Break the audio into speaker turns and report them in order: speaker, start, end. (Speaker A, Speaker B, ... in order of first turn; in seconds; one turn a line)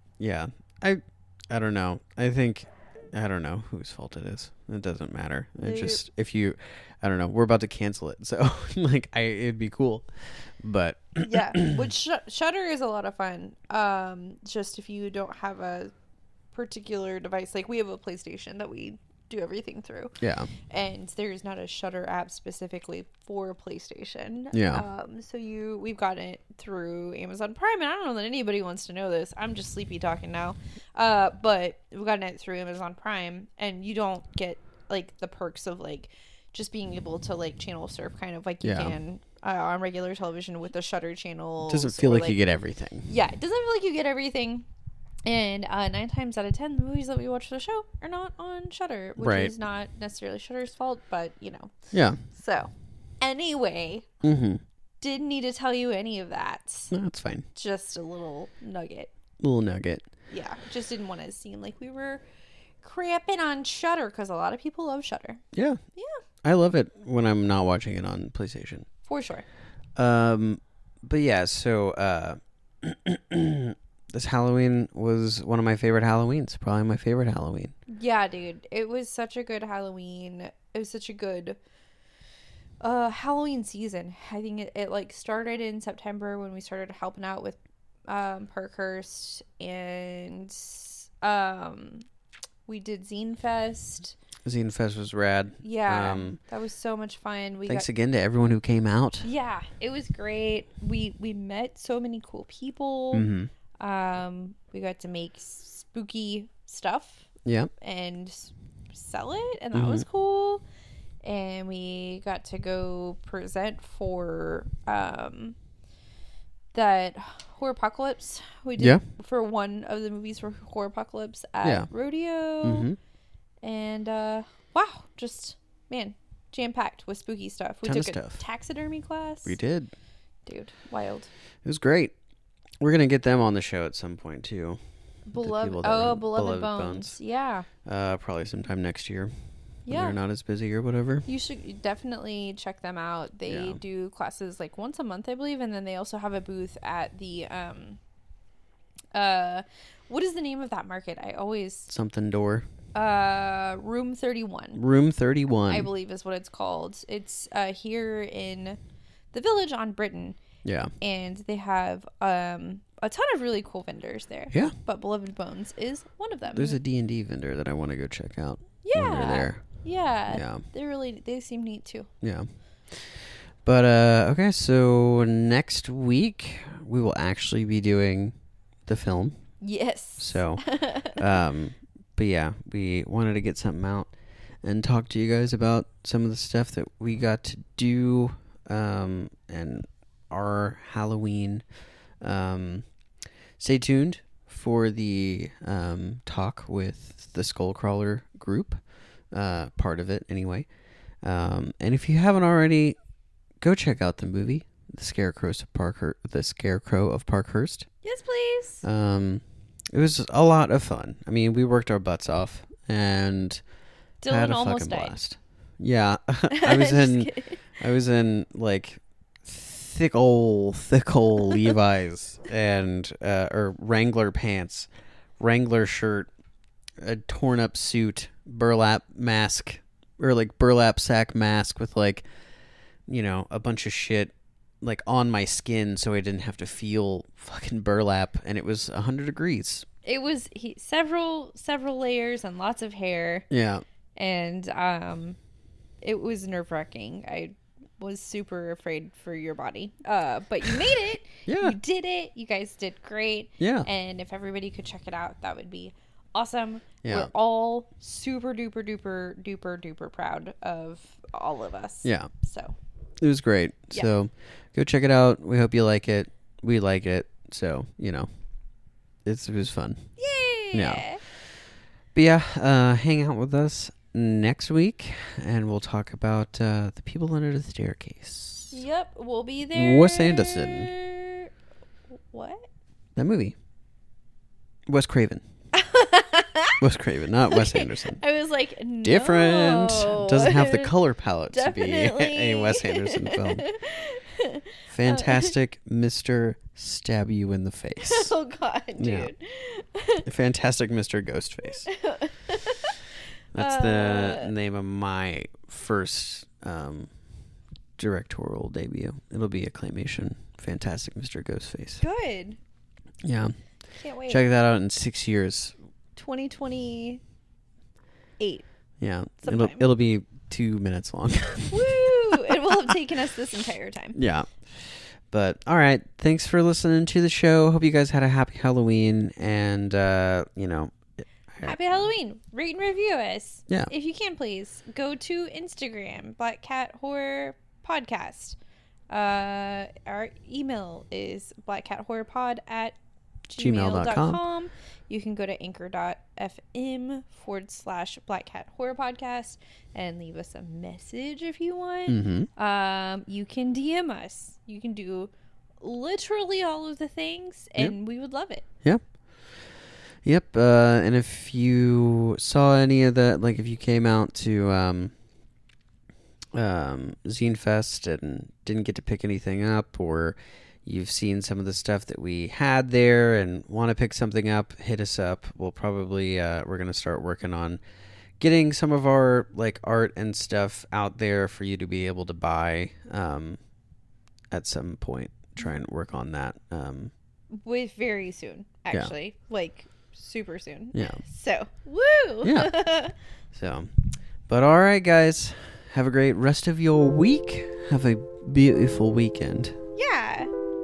Speaker A: 0.2-11.8
Speaker B: 5.6-6.0
Speaker B: 11.2-15.9
Speaker B: 16.5-20.2
Speaker A: 20.2-20.5
Speaker B: 20.7-42.4
Speaker A: 24.5-24.8
Speaker A: 38.6-39.0
Speaker A: 41.7-43.1
Speaker B: 43.1-44.6
Speaker B: 45.2-52.7
Speaker A: 49.2-49.5
Speaker A: 51.9-52.2
Speaker B: 53.2-54.2
Speaker A: 54.2-54.6
Speaker B: 55.0-56.9
Speaker A: 56.9-57.5
Speaker B: 57.5-59.1
Speaker A: 59.4-60.0
Speaker B: 60.3-62.2
Speaker B: 62.8-65.4
Speaker A: 65.5-65.8
Speaker B: 66.0-66.2
Speaker A: 66.4-68.9
Speaker B: 69.0-69.4
Speaker A: 70.0-77.7
Speaker B: 77.9-81.6
Speaker B: 82.8-92.0
Speaker B: 92.7-94.1
Speaker A: 94.4-96.4
Speaker B: 95.6-97.9
Speaker A: 97.7-99.3
Speaker B: 99.2-103.3
Speaker A: 103.1-103.5
Speaker B: 103.8-107.3
Speaker A: 107.4-107.7
Speaker B: 107.8-110.6
Speaker A: 109.7-110.0
Speaker B: 111.2-115.5
Speaker B: 116.7-122.9
Speaker A: 122.6-123.0
Speaker B: 123.6-129.6
Speaker A: 127.8-128.4
Speaker A: 129.4-129.9
Speaker B: 130.4-131.3
Speaker A: 131.6-132.1
Speaker A: 132.8-134.8
Speaker B: 135.3-137.7
Speaker A: 135.4-137.2
Speaker A: 137.8-139.3
Speaker B: 139.8-140.2
Speaker A: 139.9-141.2
Speaker B: 141.2-148.0
Speaker A: 143.5-143.8
Speaker B: 149.1-151.9
Speaker A: 151.9-152.7
Speaker B: 152.9-154.8
Speaker A: 154.8-155.9
Speaker B: 155.7-158.8
Speaker B: 159.3-160.4
Speaker A: 160.6-160.9
Speaker B: 161.0-166.8
Speaker A: 166.5-169.6
Speaker B: 168.8-172.1
Speaker A: 170.3-170.6
Speaker A: 172.2-178.3
Speaker A: 178.8-179.4
Speaker B: 179.6-181.3
Speaker A: 180.2-191.6
Speaker A: 192.2-192.8
Speaker A: 193.6-198.8
Speaker A: 199.3-200.7
Speaker A: 201.2-203.0
Speaker A: 203.6-207.9
Speaker B: 208.0-208.8
Speaker A: 208.8-213.6
Speaker B: 214.2-215.2
Speaker A: 214.3-226.3
Speaker B: 216.5-217.6
Speaker A: 227.0-232.2
Speaker A: 233.1-239.8
Speaker B: 240.0-243.5
Speaker A: 243.5-243.8
Speaker B: 244.2-245.4
Speaker B: 246.0-262.8
Speaker A: 251.5-251.8
Speaker A: 253.6-253.9
Speaker A: 257.0-257.3
Speaker A: 262.0-262.3
Speaker A: 263.2-268.3
Speaker A: 269.2-270.1
Speaker B: 270.2-271.2
Speaker A: 270.7-271.0
Speaker A: 272.1-278.8
Speaker B: 278.7-281.5
Speaker A: 279.7-280.9
Speaker B: 282.1-282.7
Speaker A: 283.1-283.6
Speaker A: 284.9-285.4
Speaker B: 285.7-286.8
Speaker A: 286.8-288.2
Speaker B: 287.5-290.9
Speaker A: 289.0-293.6
Speaker B: 291.5-295.5
Speaker A: 294.9-298.3
Speaker B: 298.0-300.3
Speaker A: 299.0-299.3
Speaker A: 300.2-301.9
Speaker B: 301.9-303.0
Speaker A: 303.5-307.1
Speaker B: 303.6-304.5
Speaker A: 308.0-312.0
Speaker B: 312.0-312.6
Speaker A: 313.2-313.5
Speaker B: 313.9-314.4
Speaker A: 314.3-315.8
Speaker B: 316.1-317.2
Speaker B: 318.4-318.6
Speaker A: 319.0-322.9
Speaker B: 319.4-319.9
Speaker B: 321.7-324.2
Speaker A: 324.1-330.9
Speaker A: 331.5-331.8
Speaker B: 331.6-338.6
Speaker B: 339.1-342.9
Speaker B: 343.5-358.6
Speaker A: 343.6-344.4
Speaker A: 352.1-352.5
Speaker A: 360.2-365.1
Speaker A: 366.5-377.8
Speaker A: 378.4-383.6
Speaker A: 384.5-387.1
Speaker B: 387.5-393.1
Speaker A: 390.9-391.2
Speaker A: 392.4-392.7
Speaker A: 393.5-399.8
Speaker B: 400.0-400.5